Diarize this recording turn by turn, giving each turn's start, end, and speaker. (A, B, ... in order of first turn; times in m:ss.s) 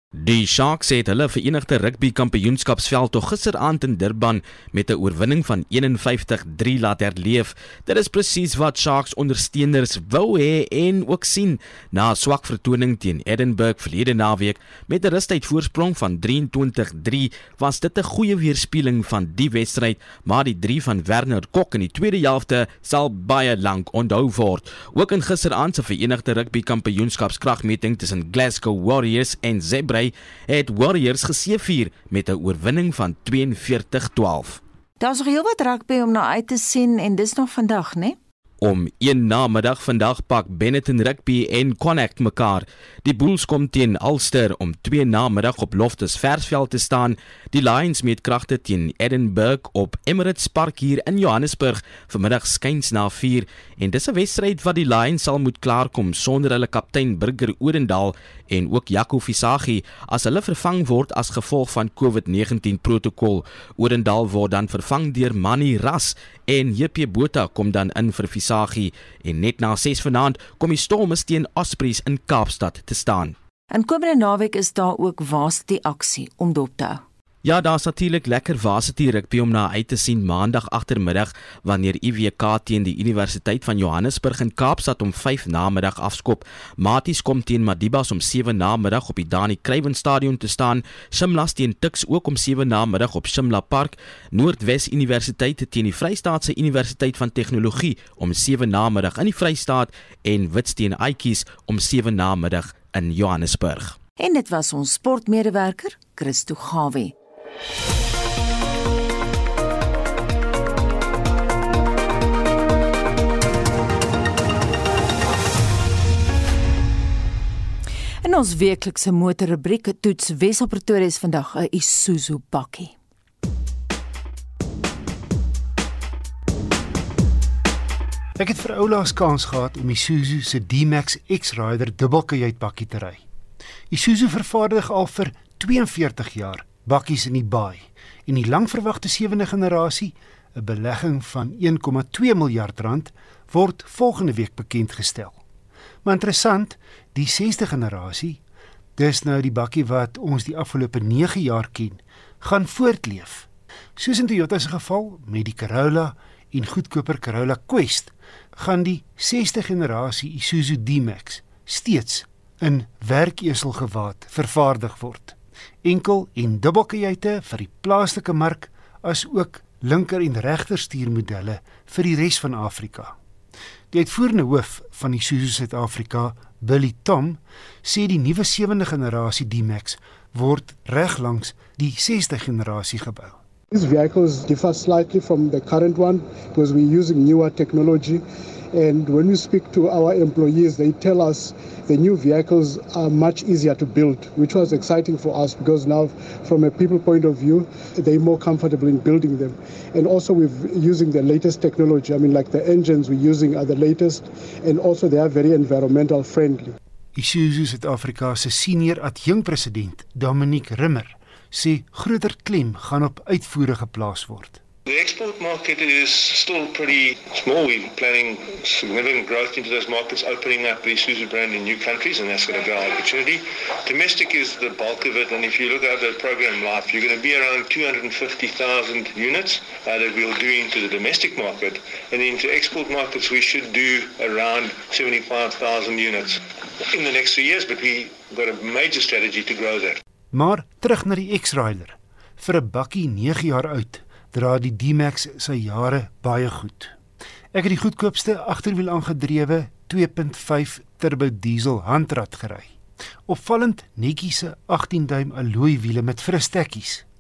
0:00.2-0:34.6 A
0:35.0-0:38.2 B
0:38.6-1:13.4 A
1:13.7-1:17.0 B
1:17.4-1:44.0 A
1:44.2-1:47.1 B
1:58.2-2:03.0 B
2:08.4-2:13.2 C
2:13.9-2:25.4 C
2:26.0-2:28.4 C
2:29.0-2:53.1 C
2:53.9-3:03.4 C
3:03.7-3:08.2 D
3:08.7-3:26.8 D
3:27.2-3:34.6 C
3:34.9-3:56.4 E
3:56.9-4:00.0 E
4:00.3-4:06.9 C
4:07.5-4:12.7 C
4:13.3-4:17.0 C